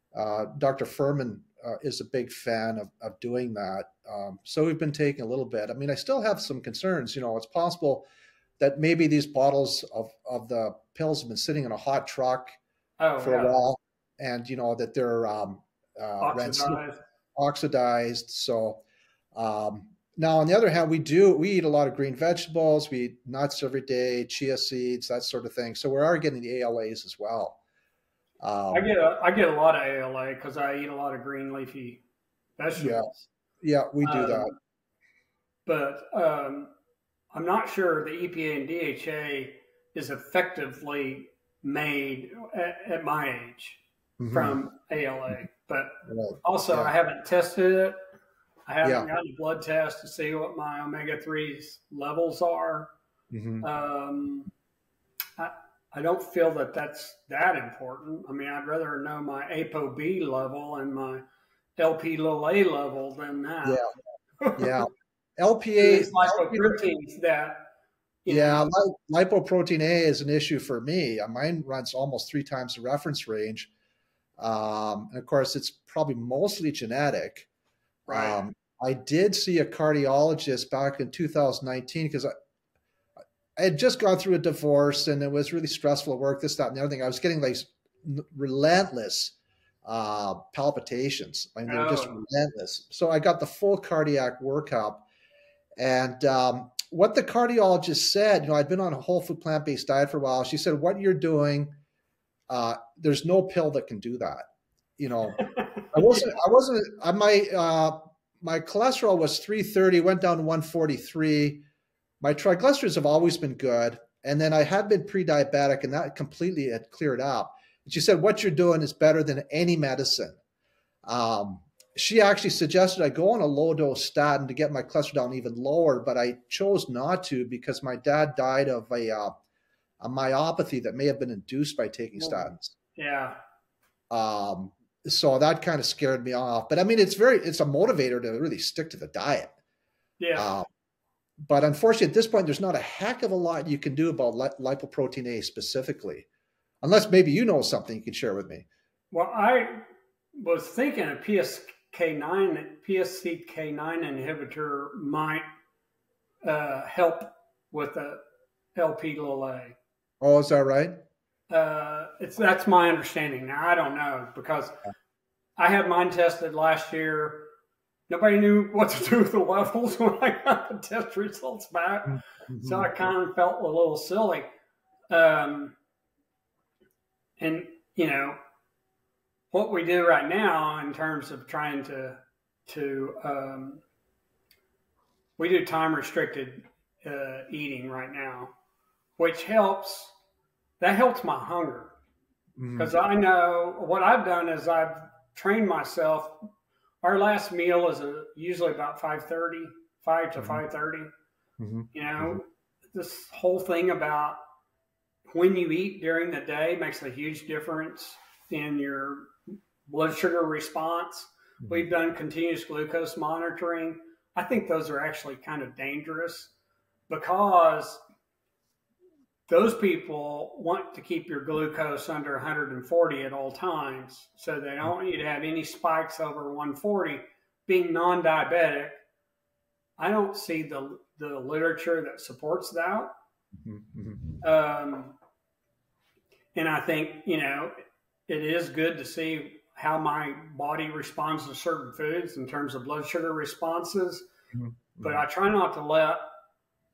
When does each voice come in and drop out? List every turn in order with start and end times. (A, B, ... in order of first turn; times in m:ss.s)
0:00.1-0:08.1 A
0:08.6-0:12.6 A
0:13.0-0:13.6 B
0:13.2-0:16.8 A
0:16.2-0:17.0 B
0:17.4-0:18.8 A
0:19.3-0:27.6 A
0:28.4-0:28.9 A
0:28.7-0:32.0 B
0:32.6-0:33.3 B
0:32.8-0:33.1 A
0:33.6-0:34.5 A
0:34.0-0:34.5 B
0:35.7-0:36.7 B
0:37.3-0:48.0 B
0:44.2-0:44.6 A
0:46.1-0:46.9 A
0:48.7-0:52.9 B
0:48.8-0:49.1 A
0:53.3-0:53.7 A
0:53.6-0:54.5 B
0:55.4-1:01.2 B
1:01.8-1:03.8 B
1:04.4-1:04.9 B
1:04.6-1:06.8 A
1:05.8-1:07.7 B
1:08.2-1:08.7 B
1:08.3-1:13.7 A
1:14.4-1:17.5 A
1:18.1-1:18.5 B
1:18.1-1:22.3 A
1:23.6-1:35.1 A
1:31.7-1:32.2 B
1:35.8-1:41.8 A
1:42.5-1:44.5 A
1:45.0-1:51.6 A
1:45.4-1:46.3 B
1:52.2-2:00.4 A
2:01.1-2:09.3 A
2:10.0-2:12.8 A
2:12.2-2:13.4 B
2:14.1-2:19.5 A
2:20.2-2:20.5 B
2:20.4-2:20.7 A
2:21.4-2:26.3 A
2:26.8-2:28.7 A
2:29.1-2:29.8 B
2:30.4-2:35.5 B
2:36.4-2:38.2 B
2:38.8-2:39.8 B
2:40.2-2:41.0 A
2:41.5-2:44.8 B
2:45.6-2:47.5 B
2:48.1-2:54.5 B
2:52.1-2:52.9 A
2:55.1-2:55.8 B
2:57.4-2:58.4 B
2:59.5-3:03.8 B
3:05.4-3:08.5 B
3:09.2-3:10.1 B
3:10.8-3:12.0 B
3:12.6-3:12.9 A
3:12.8-3:16.5 B
3:17.0-3:21.1 B
3:21.6-3:22.4 A
3:21.9-3:24.4 B
3:25.3-3:29.3 B
3:29.9-3:36.5 B
3:37.1-3:38.0 B
3:39.5-3:49.0 B
3:50.0-3:53.1 B
3:53.6-3:54.4 A
3:54.4-3:55.2 B
3:56.6-3:57.8 B
3:58.3-4:04.3 B
4:04.5-4:05.2 A
4:05.0-4:06.3 B